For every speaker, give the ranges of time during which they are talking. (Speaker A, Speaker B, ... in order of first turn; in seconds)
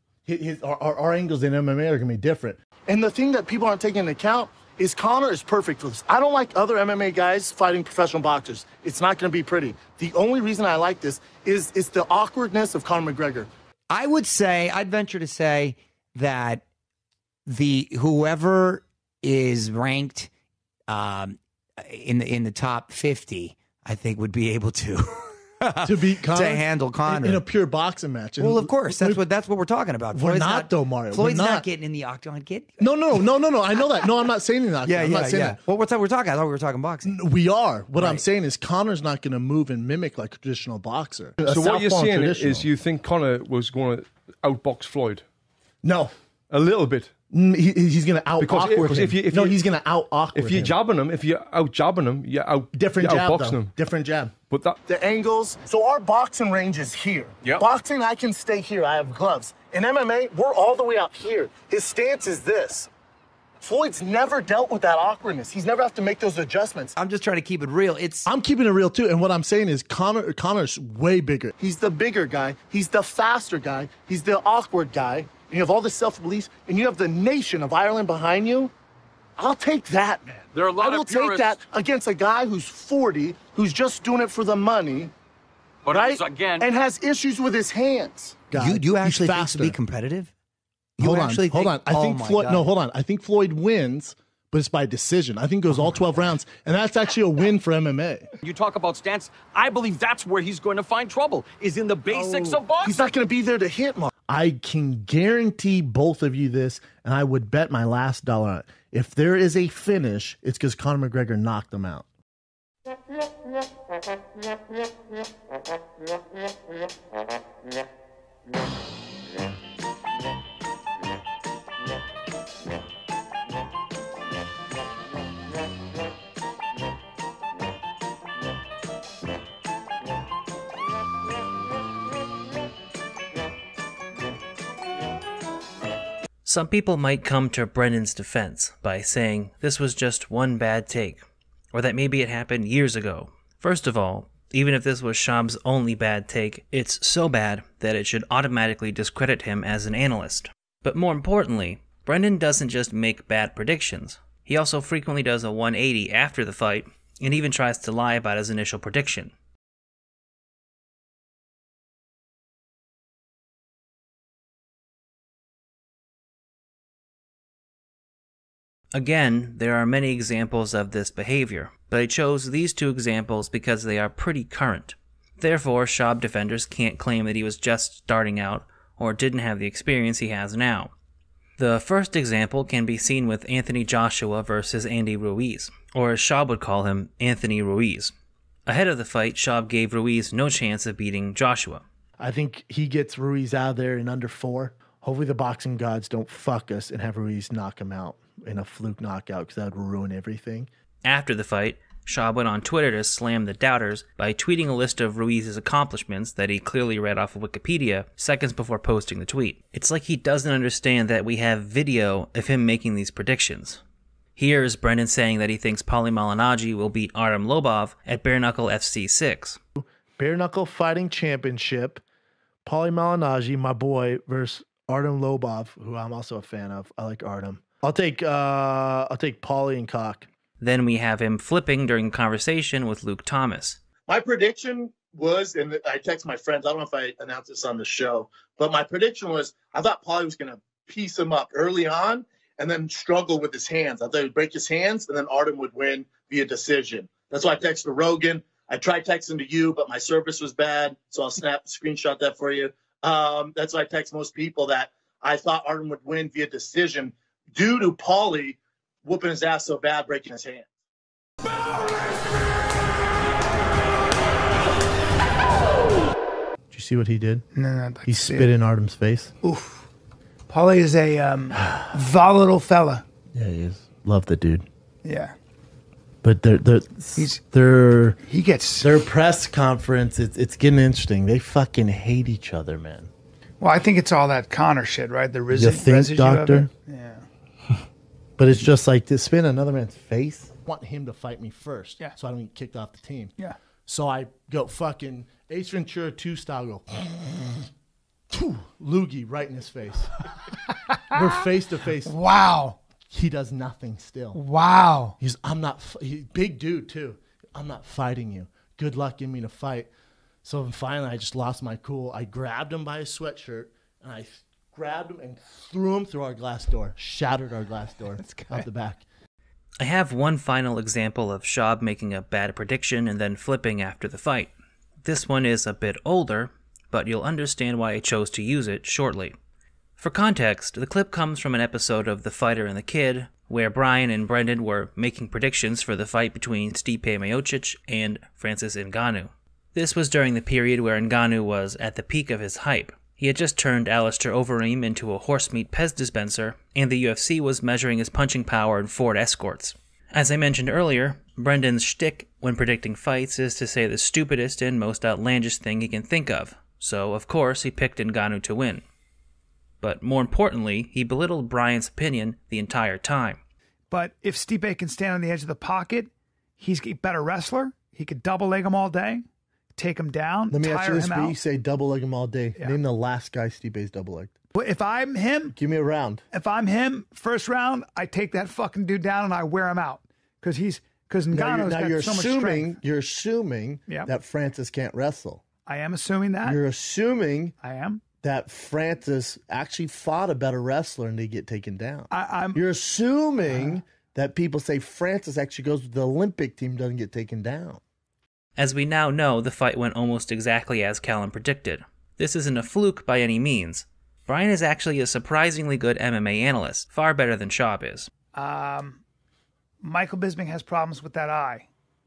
Speaker A: 0.2-13.5, 25.8-29.2, 30.1-31.6, 32.8-35.6, 37.0-42.7, 45.8-46.1, 47.3-50.7, 52.7-54.3, 54.9-62.9, 63.6-66.9, 68.2-78.7, 79.4-80.2, 80.7-85.1, 85.9-89.8, 91.0-98.3, 102.1-112.1, 192.2-200.7, 219.8-222.0, 222.6-230.3, 234.1-260.7, 266.7-267.4, 268.1-269.3, 273.3-274.6, 276.2-278.2, 278.8-283.1, 285.5-286.7, 288.4-293.3, 293.9-297.7, 298.3-300.1, 301.1-302.1, 303.1-304.4, 305.2-309.9, 310.4-319.0, 370.5-374.3, 375.5-376.2, 381.3-385.4, 386.4-387.5, 388.2-397.8
Speaker B: 13.9-16.6, 17.5-20.3, 20.9-27.4, 28.4-32.8, 34.8-37.2, 37.9-38.2, 67.0-68.3, 88.5-90.3, 91.0-92.7
Speaker C: 41.4-45.2, 46.5-47.1, 48.4-49.6, 50.3-53.7, 54.5-54.8
Speaker D: 80.5-81.5, 85.8-86.6, 98.4-102.9
Speaker E: 136.4-141.2, 141.7-159.3, 168.9-180.9, 181.6-188.1, 188.7-191.8, 201.0-213.8, 214.3-219.6, 230.6-233.8, 319.8-324.5, 325.0-329.3, 330.0-358.8, 359.8-363.4, 398.6-408.1
Speaker F: 267.5-268.5, 269.4-269.9, 270.5-273.0, 275.0-275.3, 278.3-278.9, 283.6-287.3, 300.9-301.4, 302.0-302.8, 304.3-305.1, 363.9-369.2, 369.8-371.4, 374.5-375.6, 376.3-382.8, 385.7-386.6, 387.6-388.0, 392.1-392.6, 393.5-393.8, 408.3-409.0, 409.8-411.7